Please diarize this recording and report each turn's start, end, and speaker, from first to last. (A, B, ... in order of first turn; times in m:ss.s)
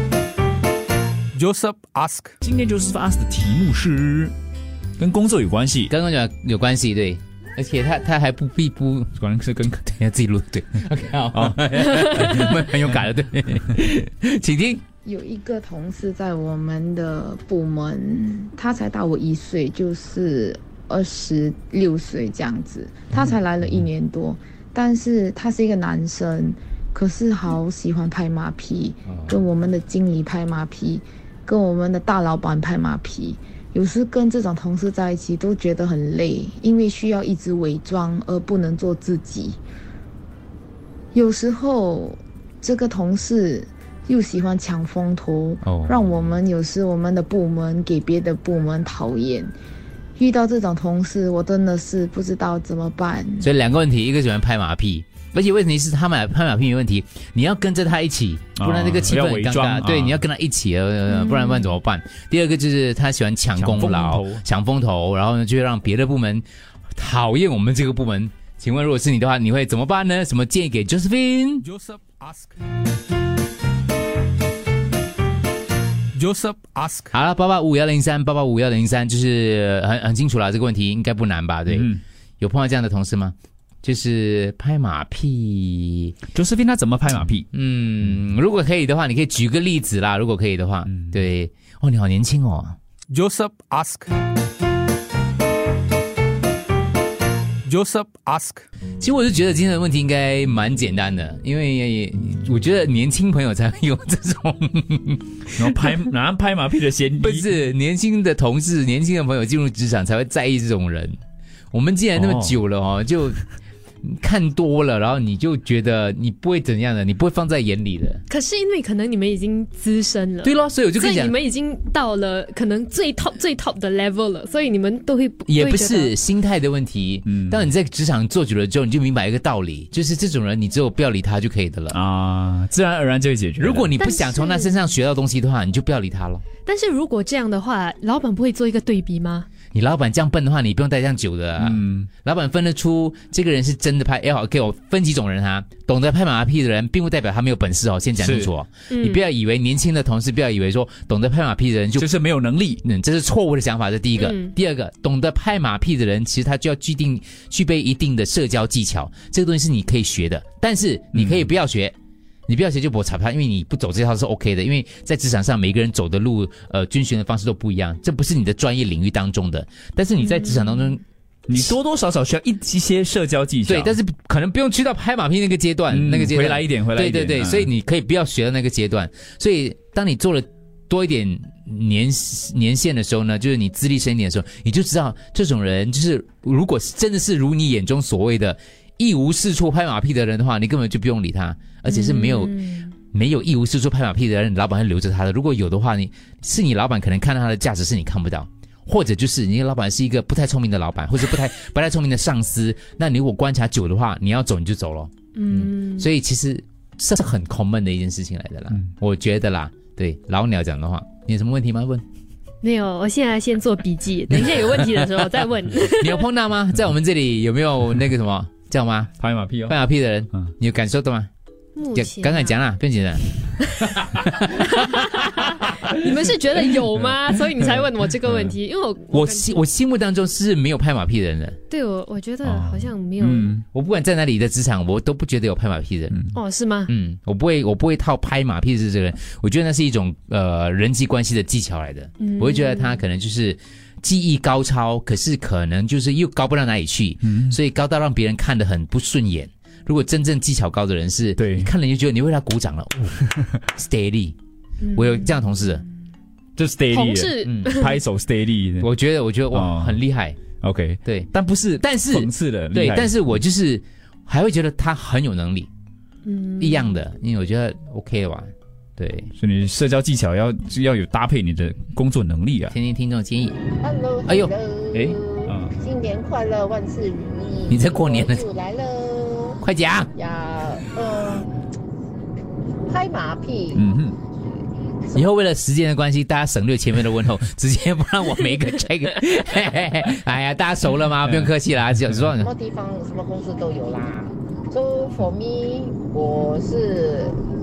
0:01.3-0:02.3 A
0:02.4-0:04.3 B
0:05.0-0:05.9 B
0:05.9-0:09.1 C
0:09.1-0:09.8 B
0:09.8-0:14.8 C
0:11.3-0:11.6 B
0:15.0-0:39.6 D
0:23.1-0:23.9 C
0:29.0-0:29.4 C
0:41.1-0:49.5 D
0:45.6-0:46.4 C
0:50.2-0:53.5 D
0:53.4-1:06.4 C
0:58.6-1:00.2 B
1:01.1-1:01.8 E
1:03.6-1:04.4 B
1:07.0-1:11.6 C
1:11.6-1:12.6 A
1:16.1-1:17.2 A
1:17.1-1:26.2 C
1:21.7-1:22.0 B
1:26.3-1:27.4 B
1:27.5-1:32.8 C
1:30.8-1:31.2 B
1:33.1-1:34.1 A
1:37.6-1:38.6 A
1:39.0-1:45.8 C
1:45.6-1:47.5 B
1:47.2-1:51.2 C
1:51.7-1:53.4 C
1:52.1-1:52.6 B
1:54.0-1:58.2 C
1:58.3-2:06.1 E
2:00.4-2:01.4 C
2:05.5-2:12.0 C
2:07.2-2:07.7 B
2:11.9-2:13.9 B
2:13.6-2:16.4 C
2:14.0-2:14.7 E
2:16.6-2:19.5 E
2:19.7-2:32.1 C
2:21.6-2:22.1 B
2:28.2-2:28.5 B
2:28.9-2:29.2 E
2:32.0-2:32.8 B
2:32.8-2:41.9 C
2:34.2-2:34.5 E
2:41.1-2:41.5 B
2:42.5-2:51.0 C
2:50.2-2:50.8 E
2:51.5-2:54.0 B
2:53.6-3:32.0 C
2:55.9-2:57.7 B
3:11.9-3:12.9 E
3:25.4-3:26.1 E
3:32.6-3:36.2 E
3:34.4-3:35.2 C
3:36.0-3:39.1 C
3:39.2-3:40.5 B
3:39.7-3:41.3 C
3:41.8-3:42.6 E
3:41.9-3:43.3 C
3:44.7-3:49.6 E
3:47.0-3:47.6 B
3:48.3-3:48.6 B
3:49.1-3:51.6 C
3:51.7-3:53.6 E
3:52.4-3:53.6 B
3:53.7-3:56.2 C
3:56.1-3:56.4 B
3:56.3-3:56.9 E
3:56.8-4:13.2 C
4:02.2-4:03.0 E
4:07.2-4:07.6 B
4:11.4-4:11.7 B
4:13.3-4:13.5 B
4:13.7-4:14.4 C
4:14.8-4:15.4 E
4:14.9-4:15.8 C
4:16.6-4:18.9 B
4:16.9-4:18.0 E
4:17.4-4:17.7 C
4:18.8-4:20.4 C
4:19.5-4:20.0 B
4:20.5-4:23.2 B
4:21.0-4:25.7 C
4:26.2-4:27.0 E
4:26.6-4:29.3 C
4:29.4-4:32.7 B
4:32.7-4:33.7 C
4:33.7-4:39.6 F
4:34.2-4:34.5 C
4:34.9-4:35.7 B
4:37.7-4:38.4 C
4:39.6-4:40.1 C
4:40.1-4:41.5 F
4:42.9-4:43.8 F
4:43.7-4:44.2 B
4:45.1-4:52.5 C
4:51.2-4:51.5 B
4:52.4-4:57.4 F